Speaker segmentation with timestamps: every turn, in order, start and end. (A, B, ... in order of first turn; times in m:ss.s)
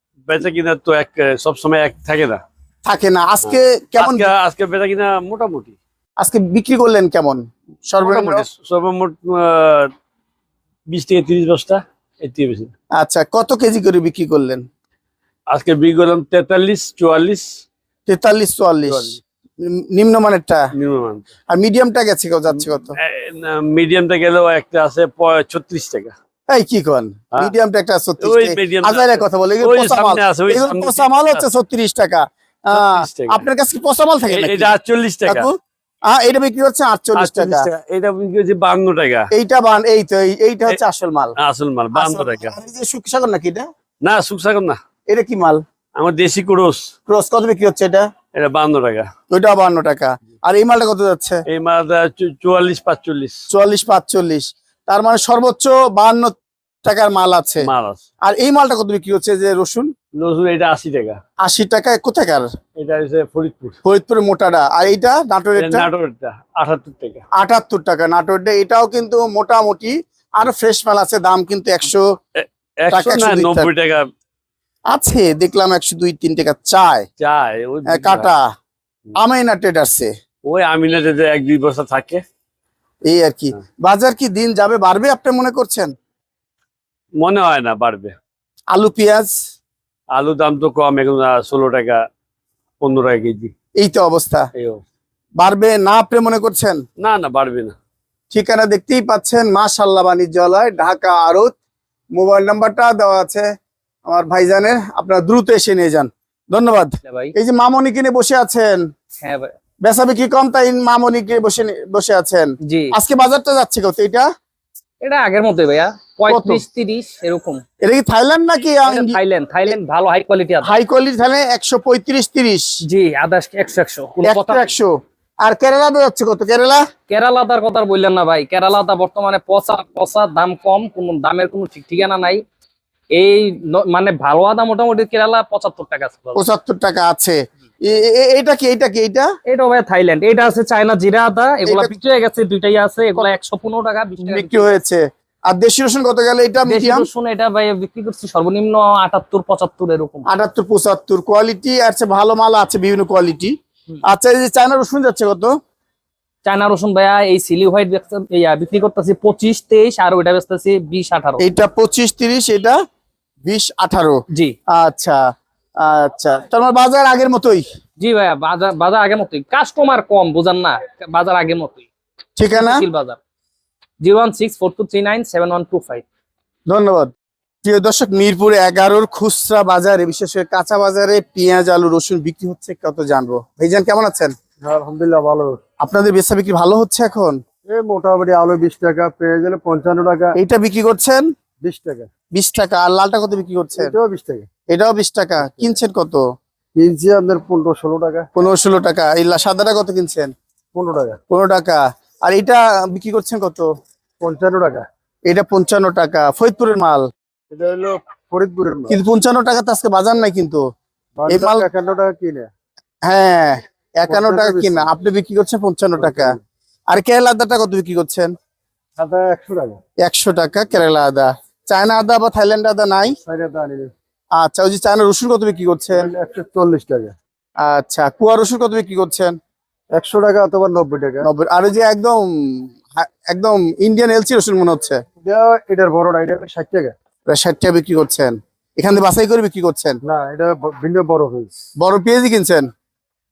0:00.3-0:02.4 A
0:02.9-0:04.3 B
0:03.5-0:05.8 A
0:06.2-0:08.5 B
0:08.0-0:09.9 A
0:10.9-0:12.7 A
0:13.0-0:14.6 B
0:15.5-0:17.4 A
0:18.1-0:20.6 B
0:18.8-0:19.2 A
0:20.8-0:21.3 A
0:21.5-0:23.0 B
0:23.0-0:26.1 A
0:26.5-0:35.5 B
0:28.2-0:31.4 A
0:32.7-0:33.4 A
0:34.3-0:35.5 A
0:36.1-0:37.7 B
0:37.2-0:39.3 A
0:39.3-0:41.3 B
0:41.4-0:42.6 A
0:41.9-0:43.6 B
0:44.0-0:44.8 A
0:45.1-0:45.6 B
0:46.0-0:46.8 A
0:47.1-0:48.1 B
0:48.3-0:49.1 A
0:49.3-0:51.4 B
0:51.5-0:53.4 A
0:53.5-0:57.7 B
0:57.6-0:58.0 A
0:58.2-0:59.9 B
1:00.2-1:01.2 A
1:01.4-1:02.5 B
1:02.8-1:03.8 A
1:03.8-1:05.9 B
1:05.6-1:07.2 A
1:07.4-1:12.0 B
1:12.4-1:14.1 A
1:12.9-1:13.7 B
1:14.9-1:17.1 B
1:17.2-1:18.3 A
1:17.9-1:18.4 B
1:19.2-1:20.1 B
1:20.4-1:22.2 A
1:23.1-1:25.9 B
1:27.2-1:28.2 A
1:28.7-1:29.3 B
1:30.1-1:32.0 A
1:32.8-1:33.5 A
1:33.8-1:34.5 B
1:35.4-1:36.8 B
1:37.0-1:37.8 A
1:38.3-1:41.5 B
1:42.2-1:43.4 B
1:44.1-1:48.8 B
1:47.0-1:47.3 C
1:49.2-1:49.5 C
1:49.8-1:54.3 B
1:52.7-1:52.9 C
1:55.0-1:57.6 C
1:56.3-1:56.6 B
1:57.8-1:59.2 B
1:58.8-2:00.7 C
2:00.6-2:02.6 B
2:02.9-2:04.7 C
2:04.2-2:04.9 B
2:05.4-2:06.8 B
2:07.1-2:12.4 C
2:13.1-2:16.4 C
2:16.4-2:19.3 B
2:19.5-2:24.7 C
2:21.7-2:22.0 B
2:24.2-2:27.1 B
2:26.6-2:30.2 C
2:30.3-2:33.5 B
2:34.0-2:35.5 B
2:36.4-2:41.4 C
2:41.4-2:42.8 B
2:43.4-2:44.2 B
2:44.7-2:45.2 B
2:45.8-2:47.6 B
2:48.0-2:51.9 C
2:52.4-2:52.8 B
2:52.5-2:53.2 C
2:54.0-2:56.0 C
2:56.7-2:57.1 B
2:57.6-3:04.3 B
3:04.6-3:05.6 D
3:05.8-3:07.4 B
3:07.7-3:10.4 D
3:10.4-3:11.3 B
3:11.6-3:12.1 D
3:12.3-3:13.9 B
3:13.8-3:14.5 D
3:14.7-3:16.2 B
3:15.4-3:15.8 D
3:16.8-3:18.3 D
3:18.3-3:20.3 B
3:20.7-3:21.2 D
3:21.3-3:23.7 B
3:24.2-3:24.8 D
3:25.3-3:27.0 B
3:27.5-3:29.0 D
3:28.9-3:30.6 B
3:31.2-3:32.5 D
3:31.3-3:31.7 B
3:33.0-3:36.4 B
3:34.1-3:34.9 D
3:36.0-3:36.4 D
3:36.9-3:38.3 B
3:39.0-3:39.8 D
3:40.0-3:43.1 B
3:43.2-3:43.9 D
3:44.4-3:46.1 B
3:45.9-3:47.1 D
3:47.6-3:49.3 B
3:49.9-3:51.3 D
3:51.2-3:55.0 B
3:55.2-3:56.9 D
3:57.3-4:00.0 B
4:00.0-4:01.5 D
4:01.8-4:02.7 B